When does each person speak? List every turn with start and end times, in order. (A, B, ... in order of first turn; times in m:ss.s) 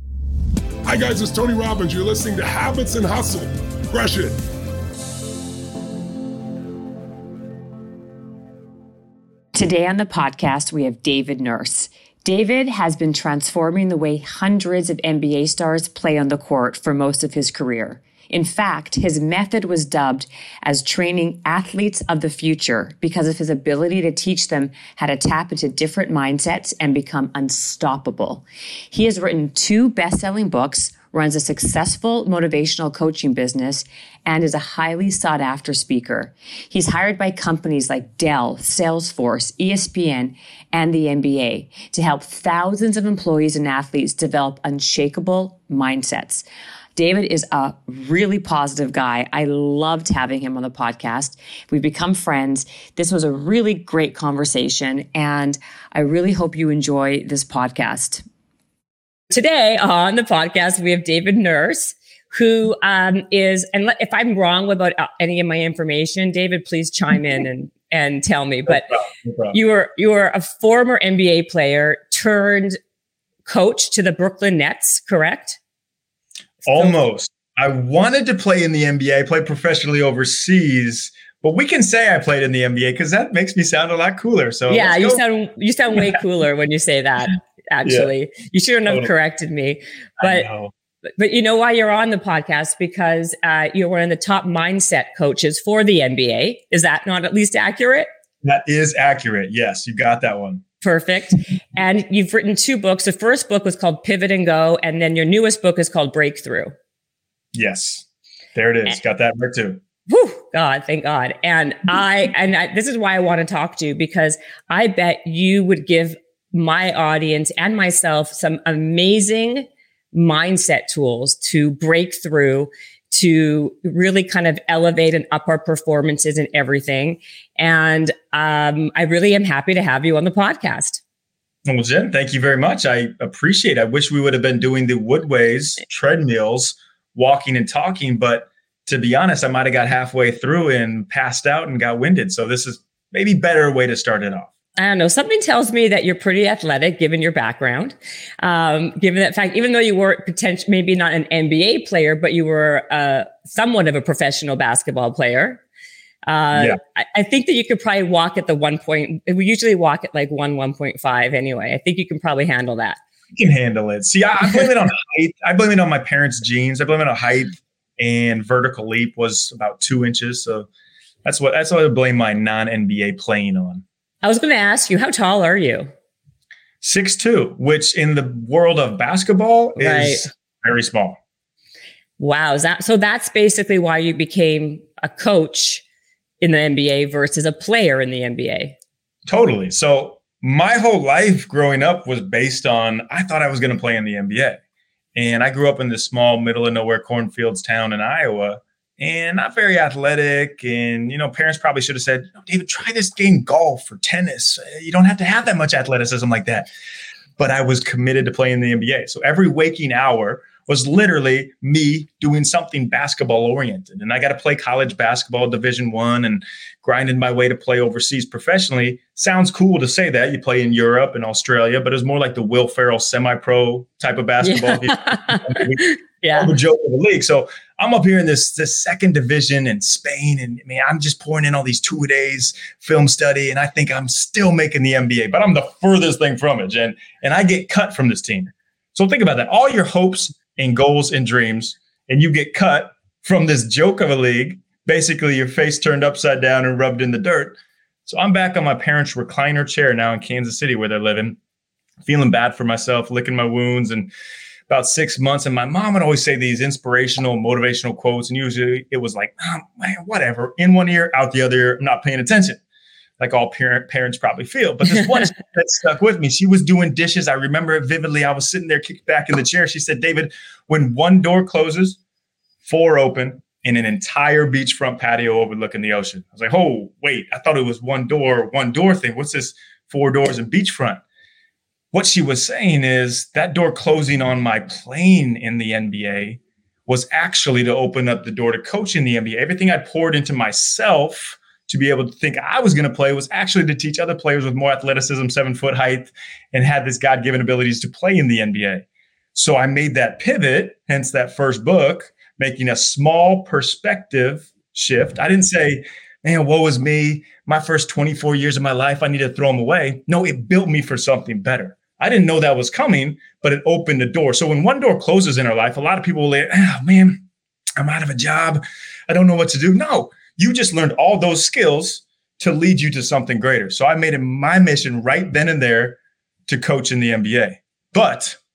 0:00.9-0:04.4 A
0:09.5-0:46.4 B
0:47.0-0:58.2 B
0:59.3-1:08.9 B
1:08.7-1:09.6 C
1:09.5-1:12.8 B
1:13.5-1:15.6 B
1:16.6-1:17.0 B
1:16.6-1:25.2 C
1:24.7-1:30.5 B
1:27.8-1:28.1 C
1:28.9-1:29.1 C
1:30.2-1:30.7 C
1:31.2-1:38.1 B
1:38.4-1:40.6 C
1:40.8-1:46.7 B
1:47.5-1:49.8 C
1:50.1-2:11.0 B
2:11.7-2:24.5 C
2:24.8-2:35.6 B
2:36.3-2:43.0 B
2:36.5-2:36.8 C
2:43.4-2:50.7 C
2:51.2-2:53.8 C
2:54.2-2:55.9 B
2:56.8-3:01.2 C
2:59.8-3:00.3 B
3:02.2-3:05.8 B
3:06.4-3:08.8 B
3:09.3-3:14.6 C
3:15.2-3:26.7 C
3:27.4-4:11.4 C
3:44.4-3:46.5 B
4:12.0-4:14.1 C
4:14.7-4:22.6 C
4:23.2-4:32.0 C
4:32.6-4:41.0 C
4:41.9-5:17.2 C
5:17.8-5:28.4 C